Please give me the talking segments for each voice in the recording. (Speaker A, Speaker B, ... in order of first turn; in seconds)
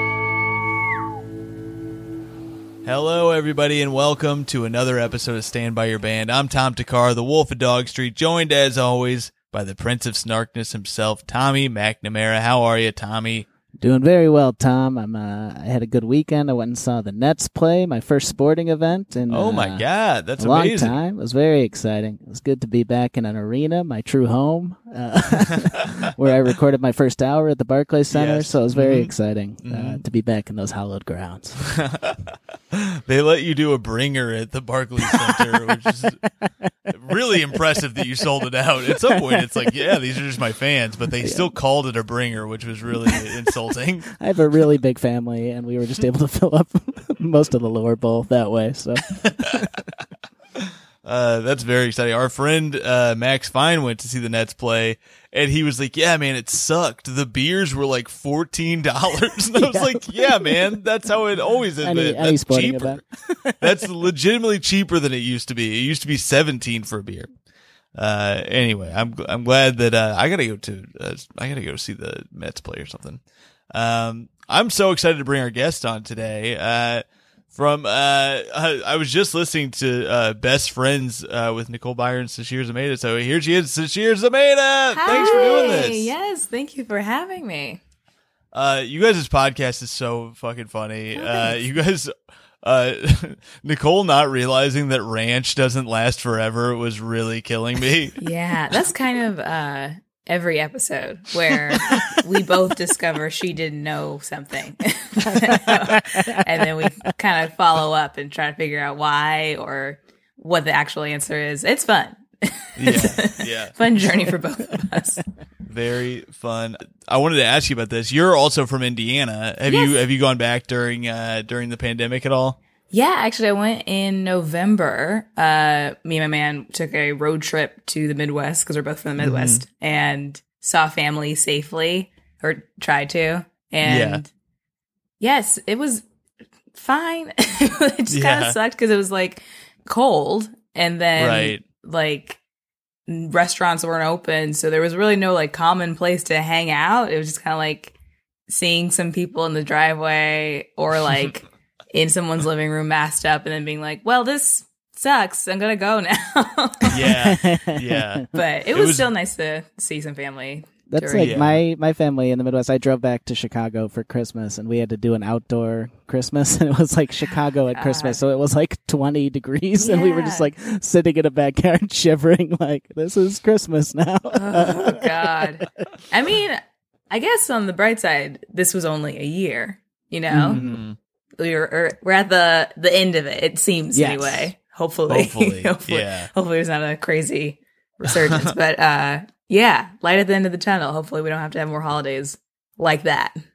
Speaker A: 2.8-13.5, 19.3-21.0, 28.1-30.0, 31.6-36.3, 36.9-44.1, 49.3-49.6, 50.6-63.0, 63.6-67.3, 68.0-73.2, 73.7-86.1, 88.5-92.1, 92.6-98.2, 112.8-113.8, 115.7-122.6, 129.2-129.6, 133.8-134.2, 138.1-138.6, 141.2-141.6, 156.9-159.1, 161.2-161.6, 180.5-181.0, 185.1-186.3
Speaker B: 13.8-19.9, 20.4-31.6, 35.0-35.5, 38.9-39.7, 41.2-41.5, 43.1-43.3, 44.2-49.7, 59.5-60.7, 61.8-63.7, 157.0-158.2, 160.9-175.9, 180.3-180.8, 183.9-184.5
Speaker C: 84.9-87.8, 91.2-91.6, 98.2-115.2, 119.7-120.0, 122.9-134.3, 135.2-136.0, 136.7-142.4, 143.1-147.9, 148.5-157.0, 158.3-161.4, 167.2-168.2, 169.8-170.5, 174.3-180.6, 181.4-193.4